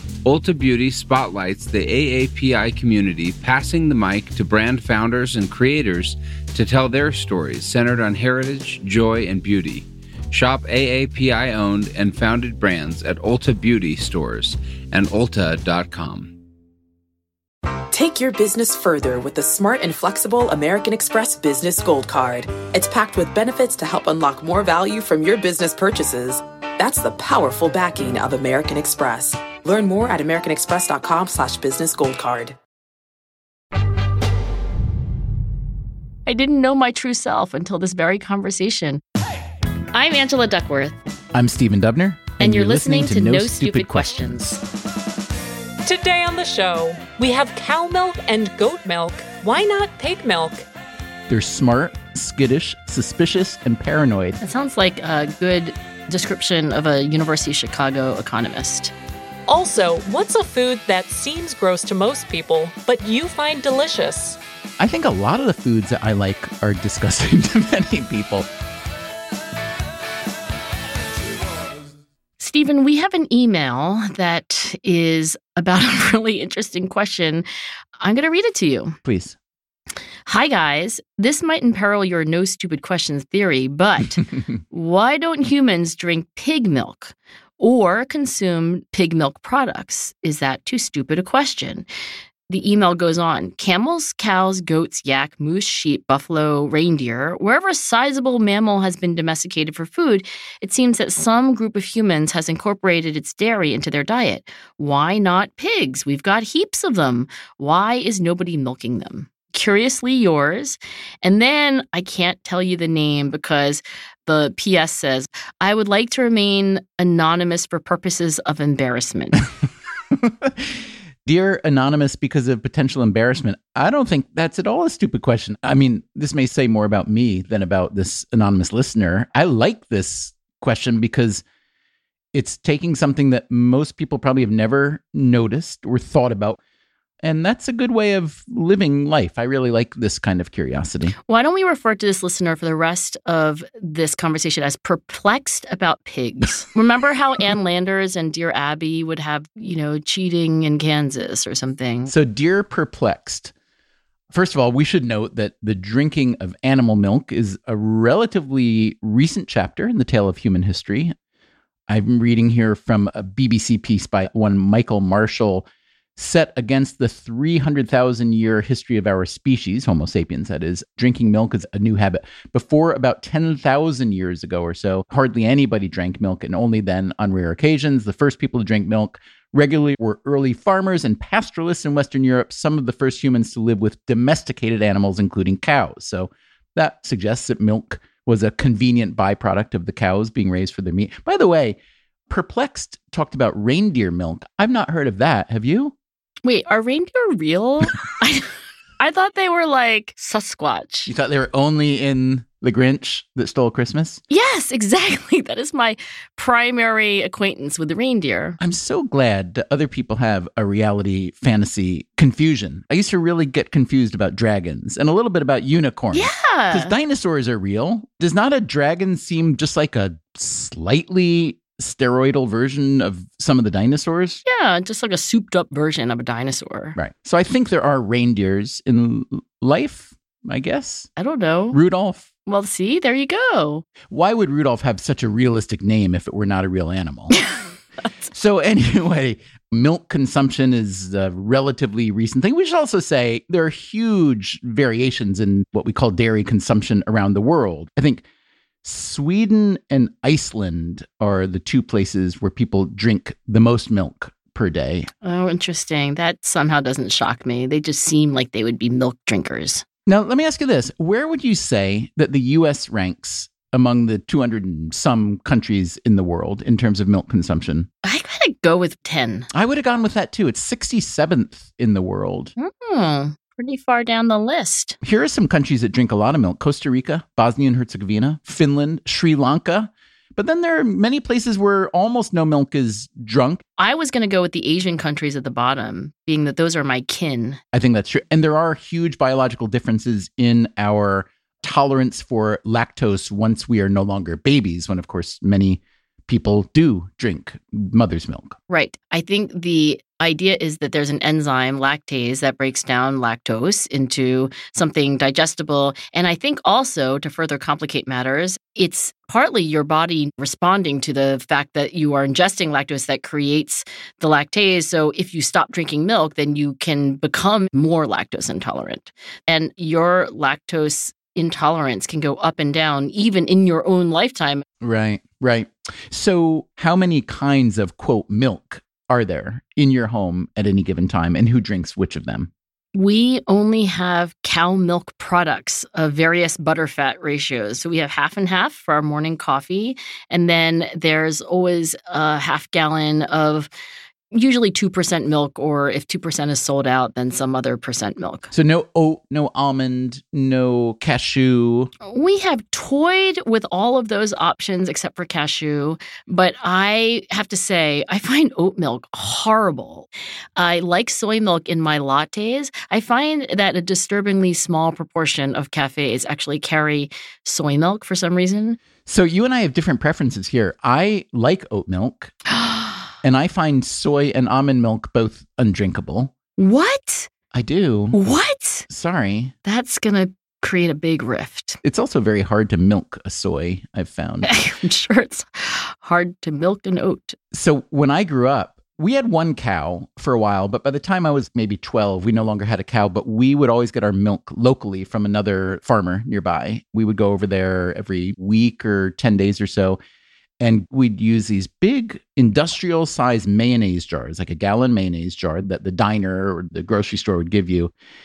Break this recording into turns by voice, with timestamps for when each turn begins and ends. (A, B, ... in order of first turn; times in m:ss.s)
0:00.2-0:16.4 A
0:17.9-0:32.6 B
0:36.3-0:39.0 C
0:39.9-0:41.0 C
0:41.3-0:44.6 D
0:42.4-0:44.6 C
0:45.8-0:50.7 E
0:51.3-0:54.4 D
0:54.4-0:58.9 C
0:59.5-1:04.4 E
1:04.8-1:08.5 D
1:12.4-1:17.5 C
1:18.0-1:19.0 C
1:19.0-1:19.4 D
1:20.3-1:31.9 C
1:32.5-1:59.4 C
2:00.1-2:11.4 D
2:12.3-2:16.6 D
2:17.2-2:21.2 D
2:21.3-2:32.1 C
2:32.1-2:33.5 D
2:34.3-2:41.2 D
2:41.9-3:16.0 D
3:16.4-3:21.1 C
3:21.1-3:24.2 D
3:24.3-3:28.6 C
3:28.6-3:44.4 D
3:36.1-3:36.9 C
3:44.4-3:47.0 C
3:47.0-3:51.1 D
3:51.2-3:51.8 C
3:51.7-3:52.3 D
3:52.5-3:53.9 C
3:54.1-3:57.4 D
3:58.3-4:08.2 D
4:08.8-4:15.1 D
4:15.2-4:19.8 C
4:20.1-4:27.9 D
4:28.0-4:29.5 C
4:29.5-4:32.5 D
4:32.6-4:35.0 C
4:35.0-4:43.6 D
4:43.8-4:47.6 C
4:47.7-4:58.6 D
4:58.7-5:24.6 C
5:24.8-5:32.5 D
5:33.0-5:43.7 C
5:44.3-5:48.5 C
5:48.5-5:51.9 D
5:52.0-6:08.8 C
6:09.1-6:12.3 D
6:12.5-6:13.1 C
6:13.2-6:16.3 D
6:16.6-6:17.3 C
6:17.5-6:18.2 D
6:18.1-6:18.9 C
6:18.9-6:19.5 D
6:19.6-6:21.8 C
6:21.8-6:24.5 D
6:24.4-6:27.4 C
6:27.5-6:40.0 D
6:40.6-6:47.9 D